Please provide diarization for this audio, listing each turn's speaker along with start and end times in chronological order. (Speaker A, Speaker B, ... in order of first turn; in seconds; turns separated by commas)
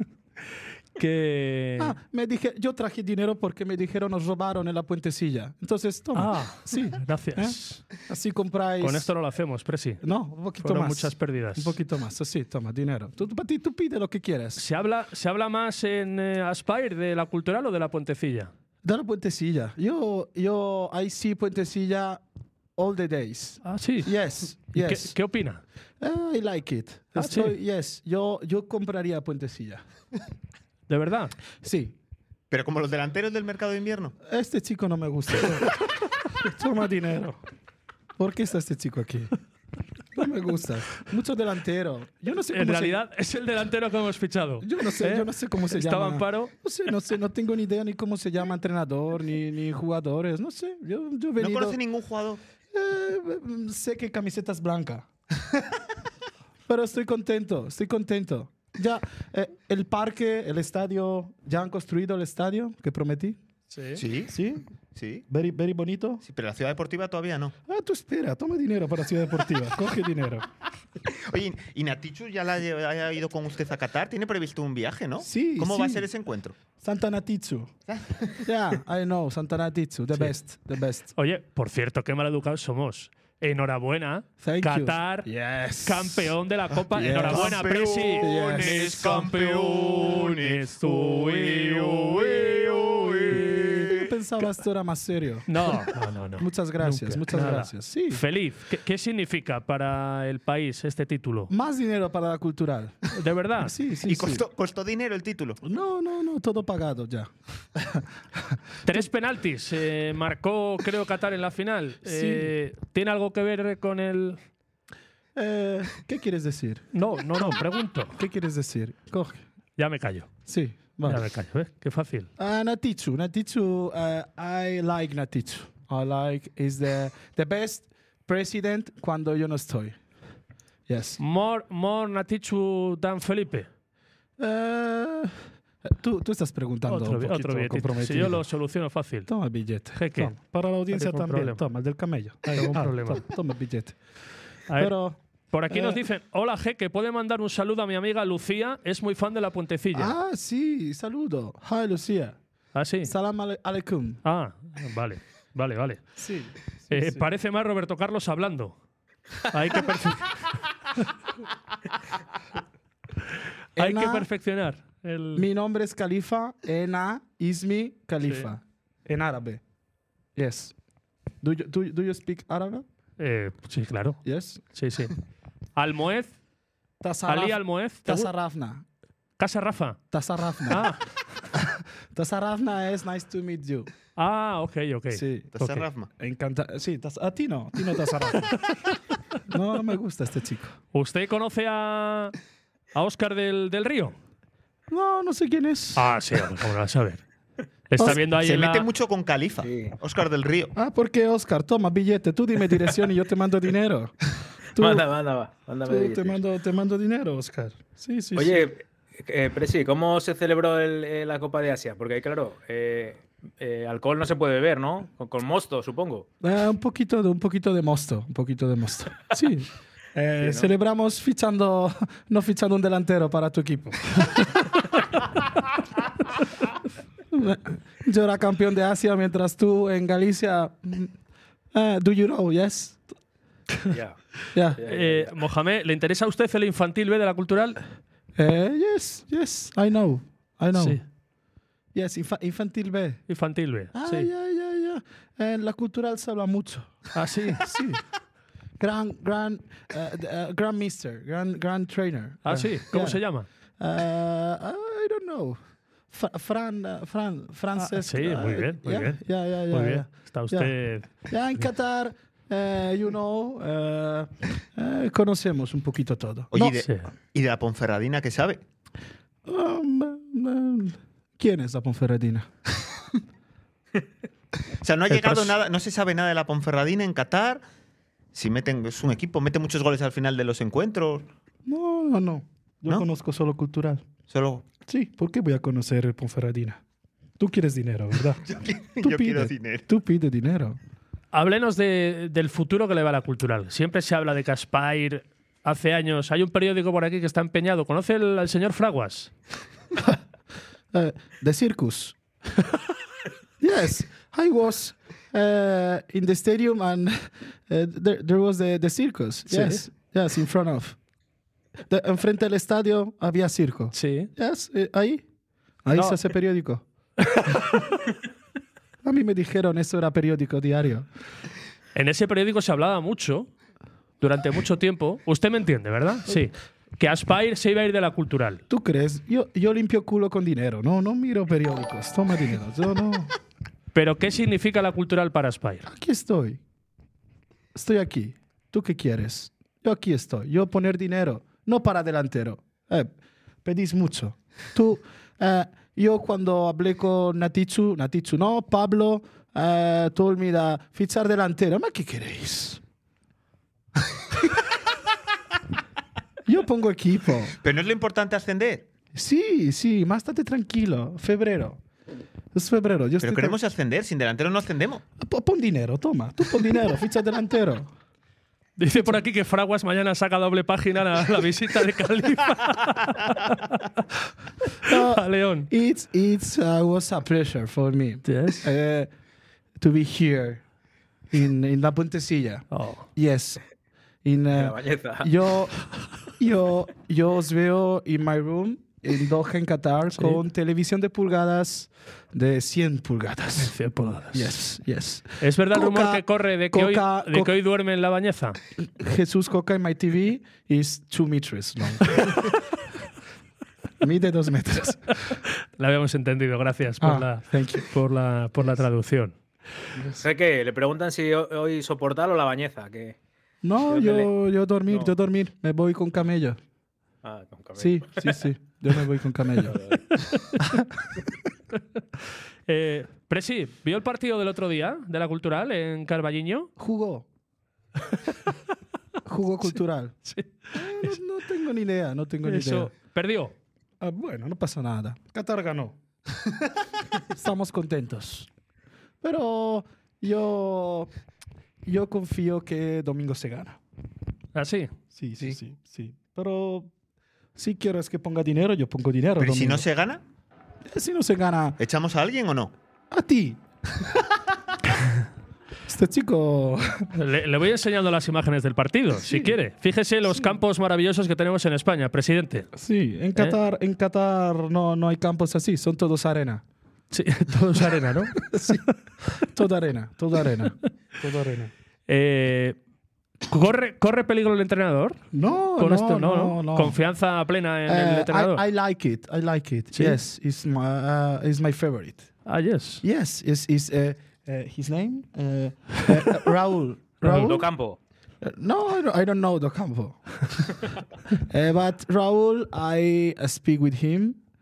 Speaker A: 0.9-1.9, Speaker B: 1.8-9.1, Speaker A: 6.1-7.8, Speaker A: 8.8-10.0, Speaker B: 10.0-14.7, Speaker A: 10.6-11.8, Speaker A: 14.6-18.5, Speaker B: 18.8-22.2, Speaker B: 22.8-25.1, Speaker A: 23.6-24.2, Speaker A: 24.7-25.6, Speaker B: 26.0-29.8, Speaker A: 27.2-27.5, Speaker A: 30.9-31.4, Speaker B: 31.6-31.9, Speaker C: 32.5-34.1, Speaker B: 34.2-35.8, Speaker B: 36.4-37.4, Speaker B: 38.2-39.4, Speaker B: 40.1-43.0, Speaker A: 42.5-46.5, Speaker B: 44.6-51.8, Speaker C: 51.4-52.4, Speaker B: 52.7-55.6, Speaker B: 56.7-63.4, Speaker A: 63.7-64.0, Speaker C: 64.0-64.4, Speaker B: 64.3-64.7, Speaker C: 64.9-65.3, Speaker B: 65.3-66.2, Speaker C: 66.2-67.5, Speaker B: 67.7-70.5, Speaker C: 71.3-76.6, Speaker B: 75.2-76.1, Speaker B: 76.8-77.7, Speaker C: 77.9-78.5, Speaker B: 78.4-81.1, Speaker A: 81.2-85.3, Speaker B: 84.4-89.2, Speaker A: 85.8-93.6, Speaker C: 87.0-94.1, Speaker B: 93.2-98.2, Speaker A: 95.5-101.5, Speaker B: 101.5-104.4, Speaker A: 103.1-103.8, Speaker C: 104.0-105.6, Speaker B: 105.6-109.1, Speaker A: 108.8-114.4, Speaker B: 112.0-112.5, Speaker B: 115.3-117.6, Speaker A: 116.9-118.2, Speaker B: 118.1-119.4, Speaker A: 119.8-120.3, Speaker B: 120.5-121.3, Speaker A: 121.0-122.3, Speaker B: 122.4-130.0, Speaker B: 130.9-131.2, Speaker A: 131.2-133.7, Speaker B: 134.4-138.4, Speaker A: 136.9-139.3, Speaker B: 139.3-144.0, Speaker A: 139.9-140.3, Speaker A: 140.9-141.7, Speaker A: 142.5-143.3, Speaker A: 144.7-144.9, Speaker B: 144.7-145.2, Speaker A: 145.5-150.2, Speaker B: 145.7-146.0, Speaker B: 149.9-152.4, Speaker A: 152.7-153.1, Speaker B: 153.0-154.2, Speaker A: 154.2-156.1, Speaker B: 156.2-157.3, Speaker A: 156.9-158.8, Speaker A: 159.4-161.1, Speaker B: 163.8-164.3, Speaker A: 163.8-165.5, Speaker B: 165.3-169.6, Speaker A: 168.2-168.5, Speaker B: 170.4-170.7, Speaker B: 171.4-172.8, Speaker A: 173.2-174.2, Speaker B: 174.2-174.6, Speaker A: 174.7-175.1, Speaker A: 175.8-176.3, Speaker B: 177.0-178.8, Speaker A: 177.3-178.3, Speaker A: 179.4-180.0, Speaker B: 180.1-180.9, Speaker A: 180.7-181.2, Speaker B: 181.5-183.9, Speaker A: 184.2-185.8, Speaker B: 185.1-185.5, Speaker C: 185.6-186.1, Speaker B: 186.2-188.6, Speaker B: 189.5-190.8, Speaker A: 190.9-192.3, Speaker A: 192.9-194.2, Speaker B: 194.9-196.2, Speaker A: 195.9-197.2, Speaker A: 197.9-198.9, Speaker B: 198.0-198.2, Speaker C: 198.0-200.7, Speaker D: 199.6-200.0, Speaker B: 200.8-205.1, Speaker D: 204.8-206.4, Speaker B: 205.9-208.7, Speaker D: 208.4-216.3, Speaker B: 216.4-224.8, Speaker D: 220.4-220.7, Speaker B: 227.3-231.1, Speaker B: 231.7-233.1, Speaker D: 233.9-234.2, Speaker B: 234.5-234.8, Speaker D: 234.8-235.3, Speaker A: 234.8-237.8, Speaker B: 238.4-241.0, Speaker A: 240.7-241.0, Speaker B: 241.9-243.2, Speaker A: 243.3-244.3, Speaker B: 243.9-248.0, Speaker A: 247.1-247.7, Speaker B: 248.8-266.6, Speaker A: 252.4-253.5, Speaker A: 257.8-261.1, Speaker C: 266.5-268.6, Speaker A: 266.6-267.1, Speaker B: 269.5-272.5, Speaker C: 274.8-277.6, Speaker B: 275.1-275.5, Speaker C: 278.3-281.3, Speaker B: 281.7-284.0, Speaker C: 284.3-284.6, Speaker B: 284.9-286.8, Speaker B: 287.4-288.4, Speaker C: 288.4-289.9, Speaker B: 289.0-290.8, Speaker A: 291.3-299.3, Speaker B: 300.9-302.7, Speaker B: 303.6-311.0, Speaker A: 309.5-309.9, Speaker B: 311.9-315.2, Speaker A: 313.9-314.3, Speaker B: 315.8-316.8, Speaker A: 315.9-316.2, Speaker A: 317.2-317.8, Speaker B: 319.0-321.1, Speaker A: 321.9-323.5, Speaker A: 324.2-328.6, Speaker B: 328.7-333.3, Speaker A: 333.9-335.9, Speaker B: 335.9-336.6, Speaker B: 337.8-343.1, Speaker B: 343.6-352.8, Speaker B: 356.5-357.6, Speaker C: 357.6-358.9, Speaker B: 359.1-361.8, Speaker B: 362.5-363.6, Speaker C: 363.2-365.0, Speaker B: 365.2-367.9, Speaker A: 368.8-373.8, Speaker B: 374.8-379.1, Speaker A: 374.9-375.7, Speaker A: 378.2-378.7, Speaker B: 379.8-380.6, Speaker B: 381.3-383.6, Speaker A: 382.7-383.1, Speaker B: 384.2-397.5, Speaker D: 384.5-385.3, Speaker A: 390.1-390.4, Speaker A: 393.6-394.6, Speaker A: 395.4-398.6, Speaker B: 398.8-402.6, Speaker B: 404.0-405.3, Speaker A: 405.6-409.4, Speaker B: 407.0-407.9, Speaker D: 410.0-413.2, Speaker B: 413.6-416.6, Speaker D: 413.9-414.3, Speaker D: 414.9-415.2, Speaker D: 417.2-418.4, Speaker B: 417.8-419.8, Speaker D: 419.6-420.2, Speaker A: 420.2-420.4, Speaker B: 420.6-420.9, Speaker A: 421.7-422.0, Speaker A: 422.7-426.7, Speaker B: 426.8-427.3, Speaker B: 429.2-430.2, Speaker A: 430.2-431.2, Speaker B: 430.7-432.9, Speaker A: 432.4-433.6, Speaker B: 434.0-436.6, Speaker B: 437.3-438.5, Speaker B: 439.2-441.1, Speaker B: 441.9-443.8, Speaker A: 444.6-445.6, Speaker B: 445.1-446.9, Speaker B: 447.6-449.9, Speaker C: 449.4-450.2, Speaker B: 450.9-451.8, Speaker C: 451.8-452.7, Speaker B: 453.1-454.3, Speaker B: 455.9-457.1, Speaker A: 457.1-462.7, Speaker B: 459.2-459.5, Speaker B: 462.8-466.6, Speaker A: 467.1-468.8, Speaker B: 468.3-471.7, Speaker A: 472.1-472.8, Speaker A: 473.5-475.2, Speaker B: 475.3-477.0, Speaker A: 475.8-478.6, Speaker B: 477.9-482.3, Speaker A: 479.9-480.2, Speaker A: 482.4-483.0, Speaker B: 483.0-487.7, Speaker A: 487.2-487.6, Speaker D: 487.2-488.0, Speaker B: 488.4-490.7, Speaker B: 491.4-494.4